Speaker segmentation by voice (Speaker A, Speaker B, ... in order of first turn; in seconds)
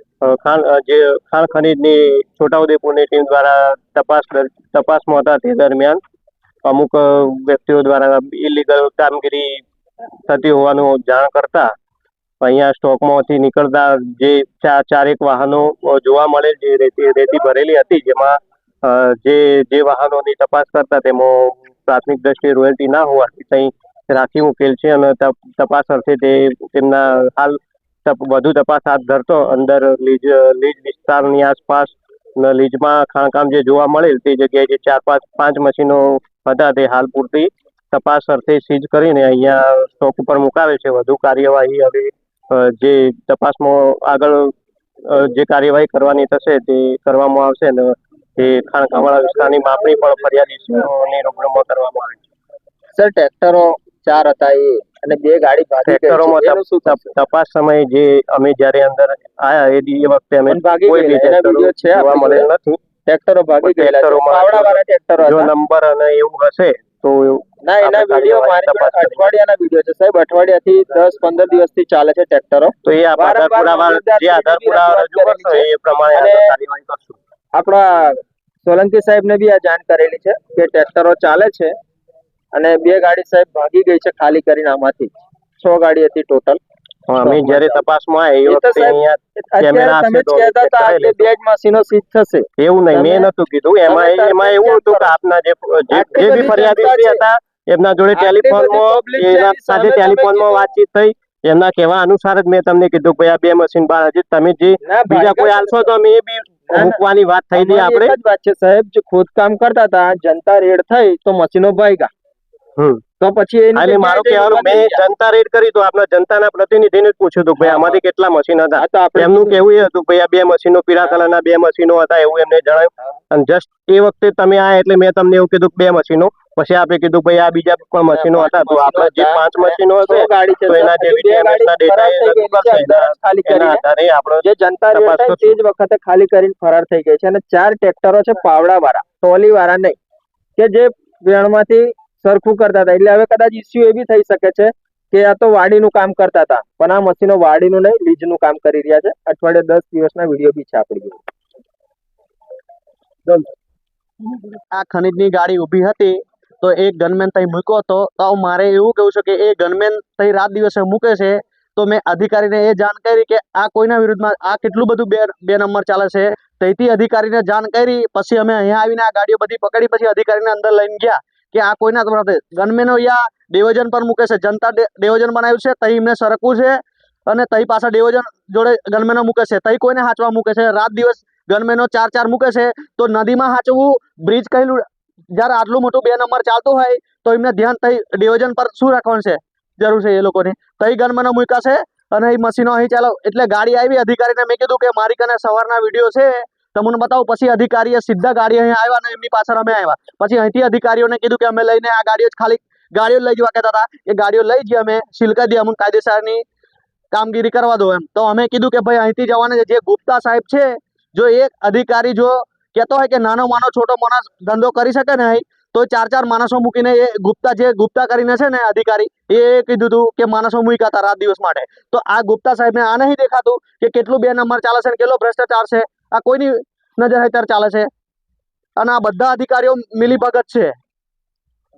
Speaker A: 0.2-6.0, 6.7-9.6, 10.2-11.7, 12.4-44.5, 45.0-52.2, 55.9-62.8, 63.6-69.3, 72.8-77.2, 87.1-91.3, 92.6-108.2, 112.8-113.0, 113.7-135.6
Speaker B: 53.0-57.1, 60.5-62.5, 63.0-65.5, 67.6-76.5, 77.5-81.7, 82.5-86.6, 87.1-87.8, 88.4-89.0, 89.5-93.3, 93.8-95.1, 95.9-97.2, 98.1-100.7, 104.8-105.9, 106.7-107.0, 107.5-112.1, 113.2-115.0, 117.6-118.0, 118.8-119.6, 128.1-133.8, 134.4-140.0, 140.6-151.2
Speaker C: 154.7-206.4, 207.1-227.9, 228.8-230.8